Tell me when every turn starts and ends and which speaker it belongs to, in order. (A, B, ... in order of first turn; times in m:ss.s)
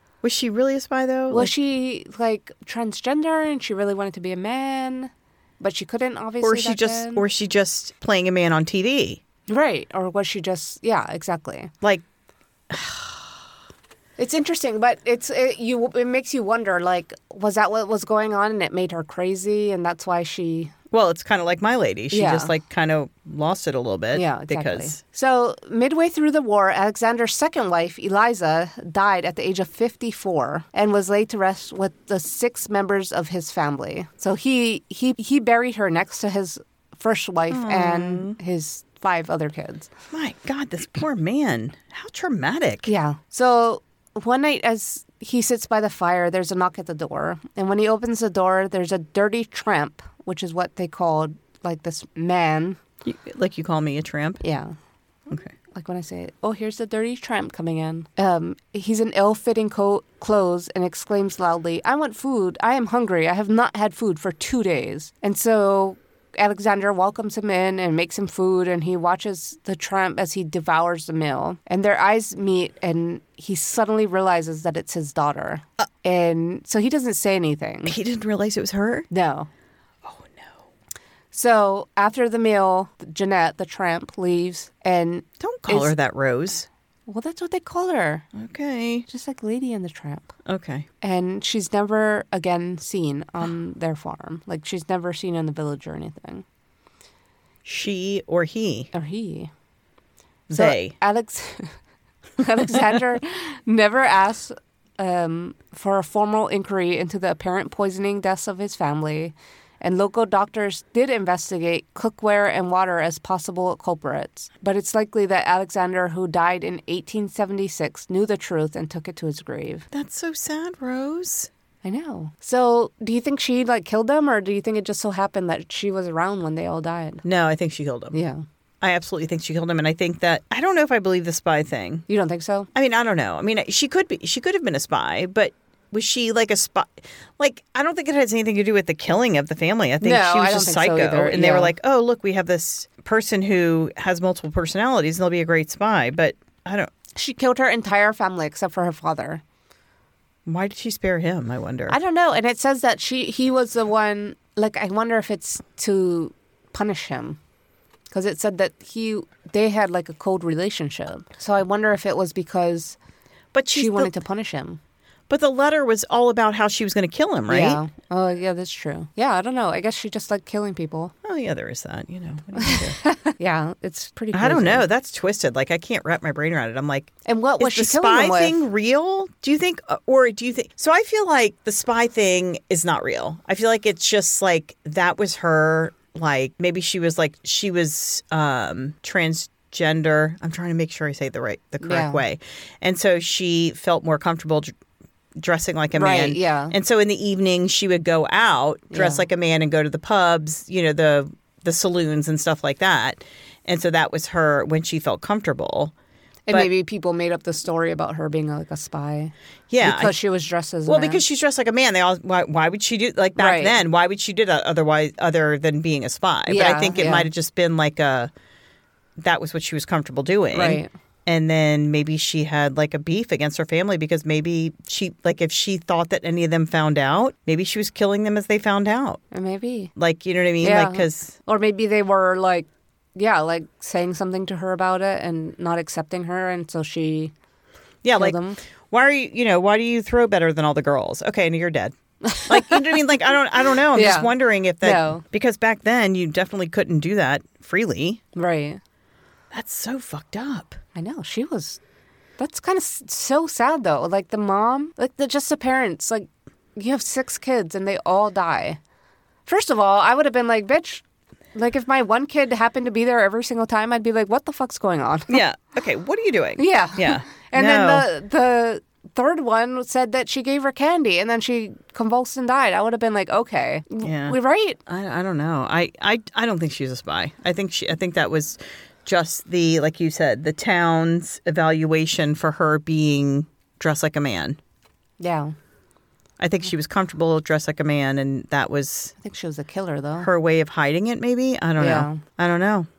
0:00.2-0:01.5 A
0:01.3-0:07.2 B
0:06.4-0:09.2 A
0:09.5-0:11.7 B
0:12.7-0:13.2 A
0:14.2-0:20.7 B
0:20.9-0:25.0 A
0:22.1-0:22.5 B
0:24.1-0:39.9 B
0:37.5-0:38.4 A
0:40.1-0:42.9 A
0:42.9-0:52.8 B
0:53.0-0:54.4 A
0:54.4-0:54.8 B
0:55.7-1:18.0 B
1:17.9-1:19.1 A
1:19.1-1:19.5 B
1:20.0-1:20.6 A
1:21.3-1:25.9 B
1:25.4-1:26.7 A
1:27.1-1:28.3 B
1:28.3-1:29.1 A
1:29.1-1:30.3 B
1:30.5-1:30.9 A
1:31.0-1:36.4 B
1:37.6-1:38.9 A
1:38.9-1:39.5 B
1:40.5-1:41.0 A
1:40.5-1:41.7 B
1:42.4-1:59.9 B
1:59.9-2:01.5 A
2:01.8-2:07.2 B
2:07.2-2:08.2 A
2:08.1-2:08.4 B
2:08.8-2:12.0 A
2:12.1-2:12.7 B
2:12.8-2:26.9 A
2:20.0-2:21.7 B
2:27.2-2:29.4 B
2:30.5-2:32.0 A
2:31.9-2:37.4 B
2:38.1-2:43.0 B
2:43.5-2:44.1 A
2:43.7-2:44.8 B
2:45.3-2:47.8 A
2:47.5-2:51.1 B
2:51.2-2:53.0 A
2:52.6-2:54.9 B
2:54.3-3:14.7 A
2:57.3-2:58.6 B
3:11.8-3:12.2 B
3:15.4-3:25.9 A
3:16.0-3:16.8 B
3:18.9-3:19.2 B
3:26.5-3:31.2 B
3:29.7-3:30.2 A
3:30.9-3:38.3 A
3:33.4-3:33.8 B
3:36.5-3:37.3 B
3:39.2-3:49.2 A
3:40.5-3:40.9 B
3:49.3-3:49.9 B
3:50.0-3:51.4 A
3:50.6-3:57.3 B
3:58.0-4:08.2 A
3:58.1-3:58.6 B
4:02.2-4:03.0 B
4:03.9-4:05.2 B
4:08.4-4:08.8 B
4:09.5-4:10.8 A
4:11.0-4:11.8 B
4:12.4-4:18.8 B
4:19.5-4:25.4 B
4:25.3-4:28.1 A
4:26.6-4:34.8 B
4:34.0-4:44.6 A
4:45.2-4:45.6 B
4:46.4-4:49.1 A
4:49.2-4:50.3 B
4:50.2-4:52.9 A
4:51.8-4:52.2 B